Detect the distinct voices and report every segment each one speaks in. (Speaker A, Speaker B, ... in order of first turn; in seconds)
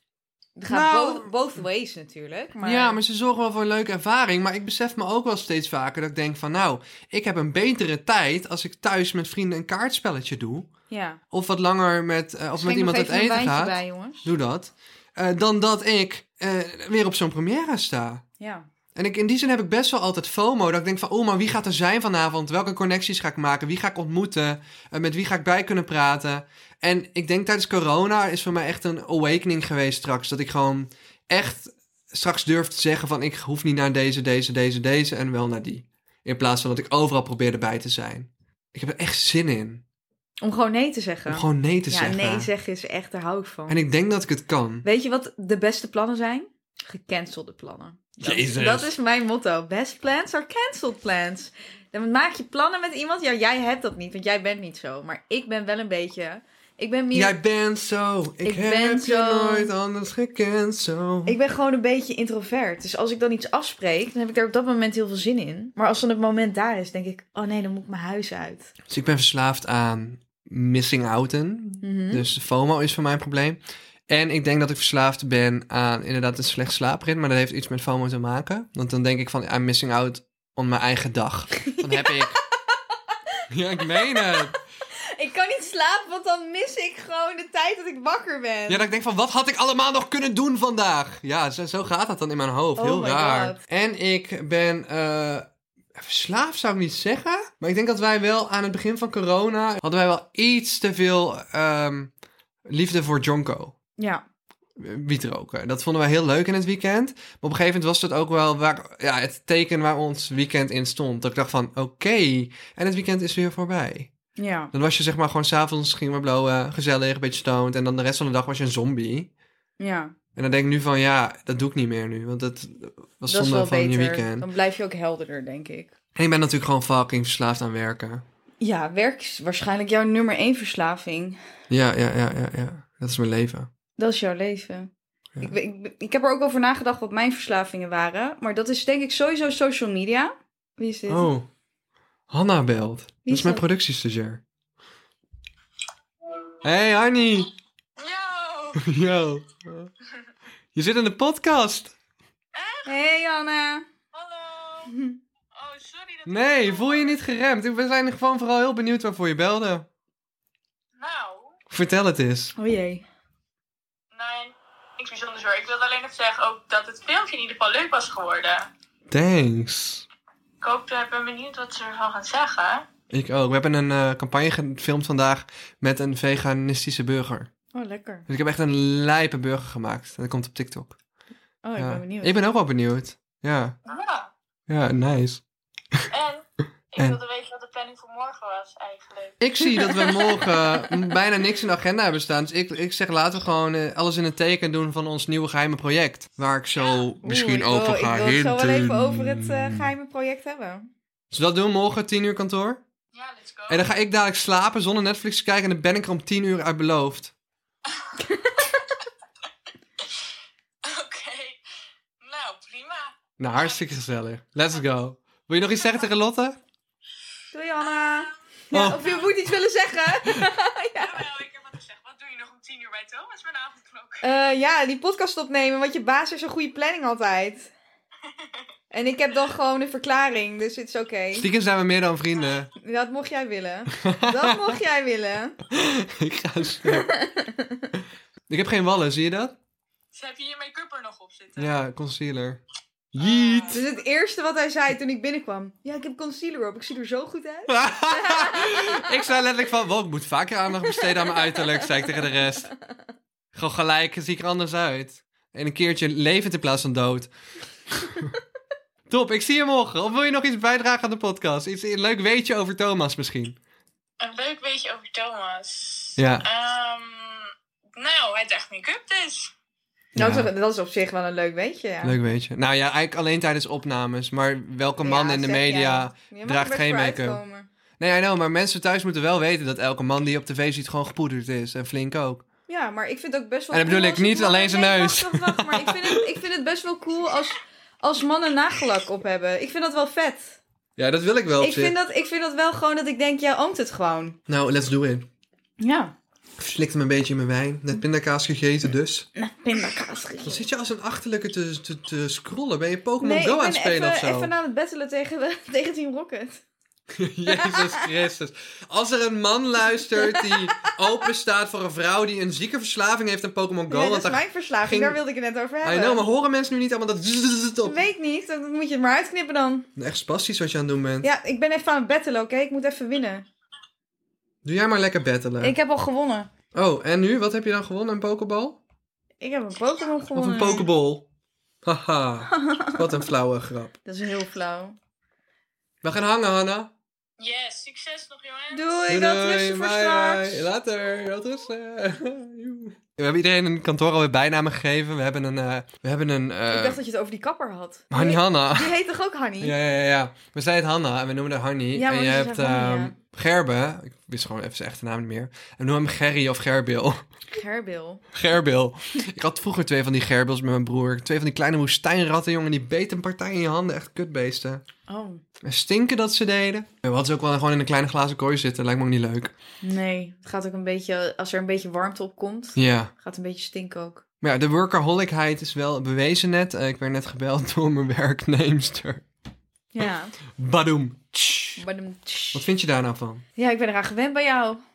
Speaker A: 0.6-3.0, 10.9-11.2, 12.6-14.3, 18.4-18.7, 40.4-43.8, 44.8-57.4, 58.5-59.7, 61.3-68.7, 71.8-72.2, 81.6-82.4, 83.8-84.5, 85.2-88.9, 92.8-93.6, 114.4-114.7, 119.8-120.1, 123.3-125.9, 128.6-131.4, 134.0-134.9, 135.4-141.3, 143.2-143.6, 152.9-153.9, 154.9-155.2, 162.6-163.1, 177.7-178.2, 181.6-182.4, 189.7-190.5, 197.2-200.9, 208.2-208.7, 217.5-221.2, 224.2-227.7, 228.9-231.5, 232.8-235.6, 236.8-237.9, 243.7-249.2, 250.9-252.6, 270.1-272.2, 275.0-277.7, 282.7-290.6, 291.6-294.4, 295.8-296.1, 299.4-300.6, 303.2-306.6, 307.5-308.1, 310.0-310.9, 313.9-316.2, 317.8-319.9, 321.2-323.5, 325.6-326.5, 329.4-330.9, 332.5-333.1, 334.1-335.0, 338.7-340.7, 346.7-349.8, 351.9-353.1, 357.5-358.2, 365.1-365.4, 369.8-374.2, 379.9-380.3, 381.8-382.6, 383.6-384.8
Speaker B: 0.7-1.3, 2.6-10.7, 11.3-18.2, 18.9-39.8, 41.3-42.5, 43.7-44.9, 48.2-48.9, 57.1-61.4, 68.9-82.4, 83.5-84.6, 88.7-102.1, 102.7-103.8, 104.8-114.1, 114.7-119.3, 120.4-124.5, 126.2-128.2, 131.7-133.7, 141.1-141.5, 142.3-144.4, 146.6-147.5, 148.8-149.9, 150.8-151.9, 156.2-159.9, 161.7-162.6, 169.1-170.1, 173.1-177.5, 178.3-181.0, 181.8-183.8, 184.7-185.4, 189.4-199.9, 201.3-202.8, 203.7-207.3, 213.4-216.6, 218.7-219.2, 231.3-232.7, 233.9-234.8, 235.7-237.1, 238.5-239.6, 241.6-242.6, 243.1-243.8, 247.7-252.7, 253.5-257.3, 258.0-258.3, 259.1-263.6, 266.2-266.5, 270.1-270.5, 272.0-277.4, 278.0-282.4, 283.7-286.4, 291.0-291.9, 294.5-295.3, 296.6-299.3, 300.4-304.5, 307.1-315.2, 315.8-318.0, 320.0-321.3, 324.6-325.8, 326.7-328.8, 330.4-331.2, 331.8-333.9, 336.0-336.9, 339.1-347.0, 348.1-348.9, 349.6-357.2, 358.3-364.8, 365.6-369.5, 372.8-373.1, 374.4-379.2, 380.6-381.8, 382.5-383.4
Speaker C: 148.0-148.8, 152.6-152.9, 154.1-154.9, 155.5-157.2, 161.0-161.6, 164.1-168.7, 170.6-172.8, 183.9-184.3, 186.1-189.9, 196.8-197.1, 203.1-203.8, 210.8-211.6, 212.2-213.8, 217.9-218.3, 218.9-219.2, 221.0-224.3, 240.1-241.7, 243.2-243.9, 264.2-269.5, 337.4-339.0